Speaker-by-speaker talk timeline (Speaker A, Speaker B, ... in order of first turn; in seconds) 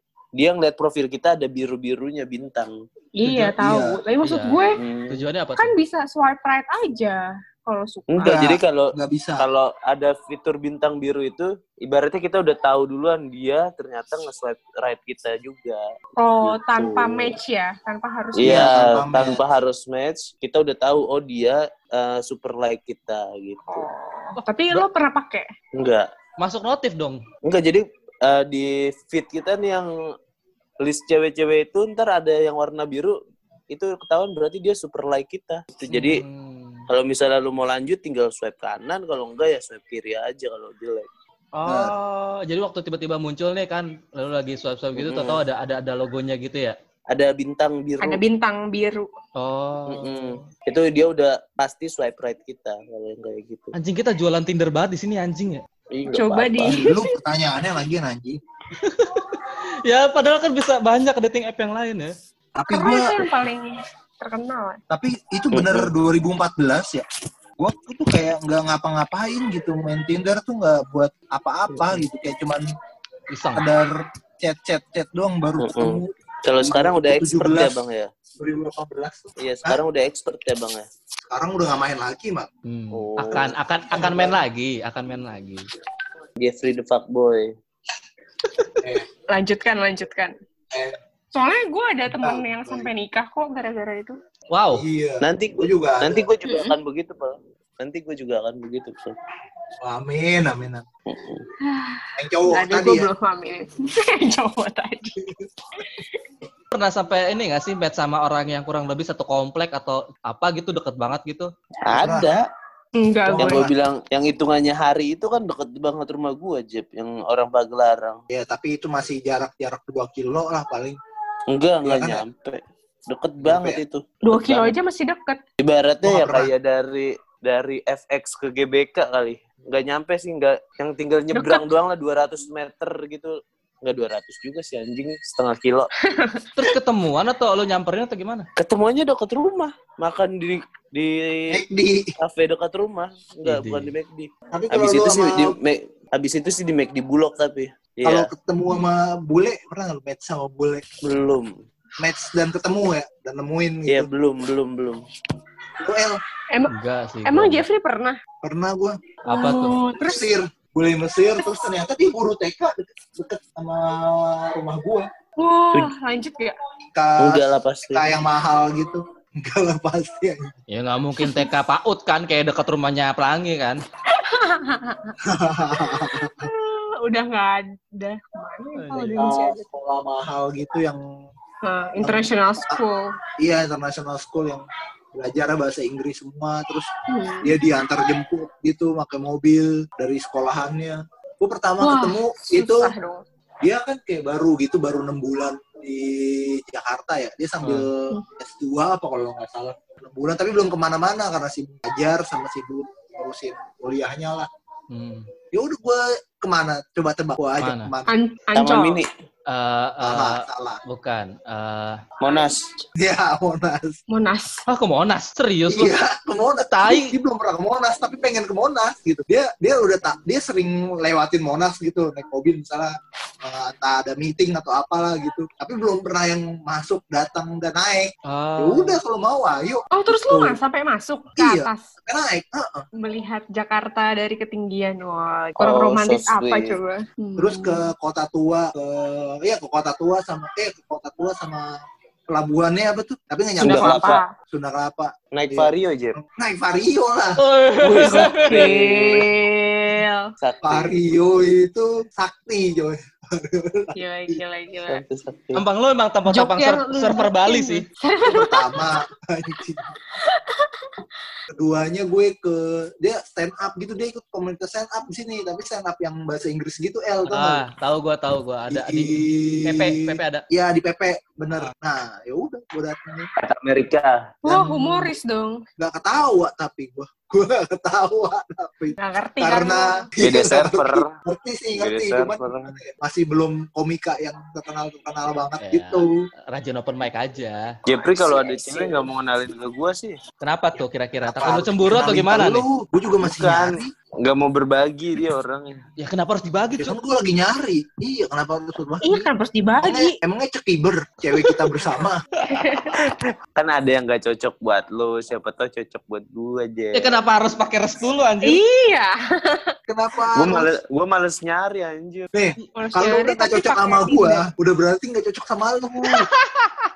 Speaker A: 0.3-2.8, 4.8-5.2, 8.1-15.8, 16.4-17.4, 18.4-23.9, 25.7-26.1, 27.4-29.9, 30.8-33.2, 33.7-36.2, 36.9-41.1, 45.0-45.4, 47.1-48.2, 49.9-53.7, 55.9-56.9, 65.5-65.9, 71.7-72.0, 75.6-78.1, 79.4-80.8, 82.9-83.5, 86.4-87.5, 95.2-99.2, 101.1-101.4, 111.8-112.4, 113.4-118.2, 121.5-124.7, 125.6-135.9, 138.6-141.6, 142.2-148.3, 151.0-151.6, 153.9-155.0, 167.2-168.1, 208.5-209.1, 212.2-212.6, 235.6-236.8, 243.6-244.2, 245.3-246.2, 247.8-249.3, 250.4-250.9, 254.9-255.6, 273.4-274.2, 280.2-281.1, 281.8-282.8, 287.9-290.2, 293.2-295.8, 302.9-307.2, 310.3-312.3
Speaker B: 3.1-4.8, 5.6-8.4, 16.2-18.7, 23.7-25.5, 48.0-49.1, 56.1-57.1, 62.7-64.8, 89.3-90.3, 91.3-94.2, 96.4-96.7, 101.6-105.2, 105.8-106.1, 113.0-113.7, 124.2-125.4, 131.3-131.7, 136.0-136.7, 157.2-158.2, 159.3-160.2, 165.4-166.5, 171.2-171.5, 174.1-175.2, 176.1-179.6, 181.6-183.2, 187.1-187.5, 191.8-193.2, 208.1-209.0, 212.2-212.8, 214.1-214.6, 229.9-231.9, 233.0-237.9, 243.6-244.3, 248.4-250.3, 253.9-255.0, 256.3-258.8, 260.2-261.0, 274.4-275.6, 279.0-280.0, 287.9-289.0, 299.0-300.1, 301.4-301.7, 302.5-303.0, 308.4-309.7, 312.7-314.4
Speaker C: 3.2-4.0, 8.2-9.4, 18.4-19.4, 41.6-41.9, 56.7-58.4, 62.5-63.2, 64.9-67.0, 67.6-72.6, 73.5-77.7, 78.4-79.8, 81.3-82.5, 83.9-84.4, 90.7-91.0, 92.0-92.9, 94.7-96.2, 99.8-100.8, 102.2-103.1, 111.9-112.3, 113.2-113.7, 118.3-121.0, 121.8-122.2, 123.4-123.8, 126.0-126.5, 141.5-142.1, 144.5-145.6, 148.0-150.8, 152.0-154.1, 155.8-156.2, 158.4-159.0, 160.0-165.1, 166.9-170.5, 175.2-176.5, 179.2-181.0, 182.0-182.8, 183.4-186.9, 187.4-192.9, 193.6-204.5, 205.5-208.1, 210.0-210.8, 213.0-214.0, 215.7-230.6, 231.4-232.8, 237.4-241.7, 242.3-247.4, 250.6-254.4, 258.2-259.9, 261.5-267.6, 268.7-273.3, 274.4-275.1, 275.8-286.1, 291.2-293.9, 296.8-299.3, 299.8-302.2, 309.9-310.7, 312.3-316.3
Speaker D: 4.2-5.8, 26.4-27.2, 35.9-36.9, 41.5-46.8, 49.4-50.5, 53.7-55.6, 58.8-62.1, 73.3-73.7, 82.7-85.7, 94.5-94.8, 106.7-111.5, 136.6-138.5, 143.4-143.9, 156.7-157.6, 159.3-159.8, 170.7-173.8, 178.7-179.3, 197.6-197.9, 204.9-205.3, 207.6-207.9, 209.5-212.0, 214.7-215.9, 216.6-217.1, 228.3-229.0, 247.4-248.7, 255.5-257.9, 267.3-270.4, 285.6-287.8, 290.4-292.6, 296.0-296.9, 306.9-308.6